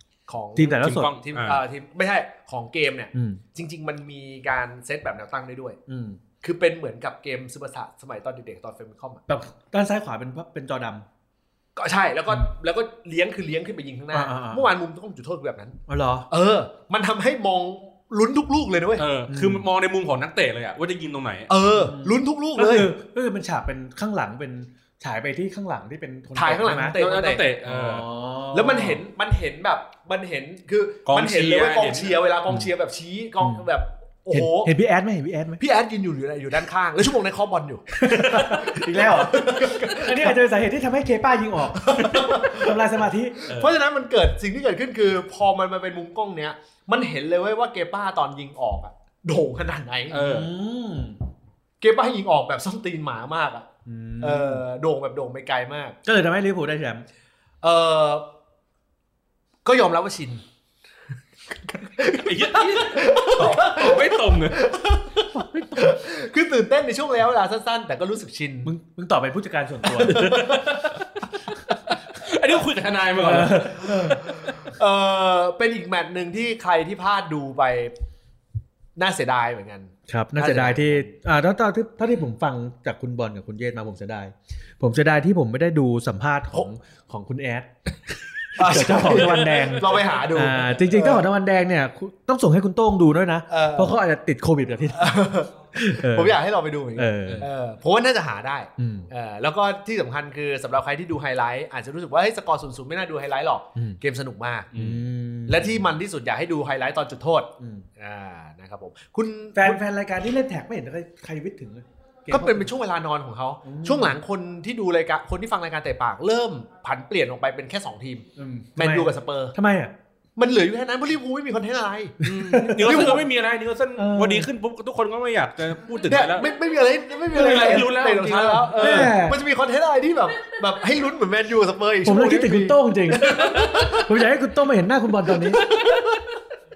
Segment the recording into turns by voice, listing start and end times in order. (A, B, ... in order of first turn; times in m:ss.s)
0:00.3-0:05.8 A
0:00.6-0:01.1 B
0:00.8-0:01.6 C
0:03.1-0:03.4 B
0:05.9-0:06.2 B
0:06.4-0:09.2 A
0:09.3-0:11.1 B
0:11.8-0:15.8 A
0:14.1-0:14.7 B
0:15.9-0:16.3 B
0:16.3-0:19.0 A
0:19.0-0:21.5 C
0:19.3-0:19.7 B
0:21.5-0:22.9 A
0:21.6-0:27.0 B
0:26.4-0:27.5 A
0:26.9-0:28.1 C
0:27.6-0:29.0 B
0:28.5-0:34.7 A
0:31.1-0:32.2 C
0:34.3-0:35.6 B
0:35.6-0:40.3 A
0:37.9-0:43.4 B
0:41.7-0:42.8 A
0:43.4-0:50.2 A
0:43.5-0:43.7 C
0:50.1-0:50.5 C
0:50.1-0:51.2 B
0:51.8-0:53.7 A
0:53.9-0:54.6 B
0:54.2-0:56.0 A
0:56.0-0:57.0 B
0:57.6-0:58.3 A
0:59.6-1:00.4 A
1:01.5-1:08.7 A
1:02.1-1:04.7 C
1:05.4-1:05.9 B
1:08.6-1:10.5 B
1:10.0-1:13.8 C
1:10.1-1:10.8 A
1:13.2-1:14.3 B
1:14.0-1:18.0 A
1:19.0-1:21.1 A
1:20.1-1:27.7 B
1:28.6-1:35.2 B
1:28.6-1:31.2 A
1:28.9-1:29.8 C
1:33.5-1:34.0 A
1:34.9-1:44.7 A
1:35.7-1:36.4 B
1:37.0-1:37.5 B
1:38.8-1:39.1 B
1:44.7-1:45.0 C
1:44.7-1:45.9 B
1:45.5-1:49.8 A
1:47.6-1:47.8 B
1:49.6-1:52.7 B
1:52.3-1:59.6 A
1:53.6-1:54.2 B
1:58.4-1:59.9 B
2:00.4-2:02.2 A
2:02.2-2:03.3 B
2:02.2-2:06.5 C
2:02.9-2:03.2 A
2:04.0-2:04.5 B
2:06.1-2:14.2 A
2:07.3-2:09.1 C
2:07.5-2:07.8 B
2:08.7-2:09.4 B
2:12.0-2:15.6 B
2:13.3-2:13.8 C
2:15.5-2:16.2 A
2:15.7-2:16.2 C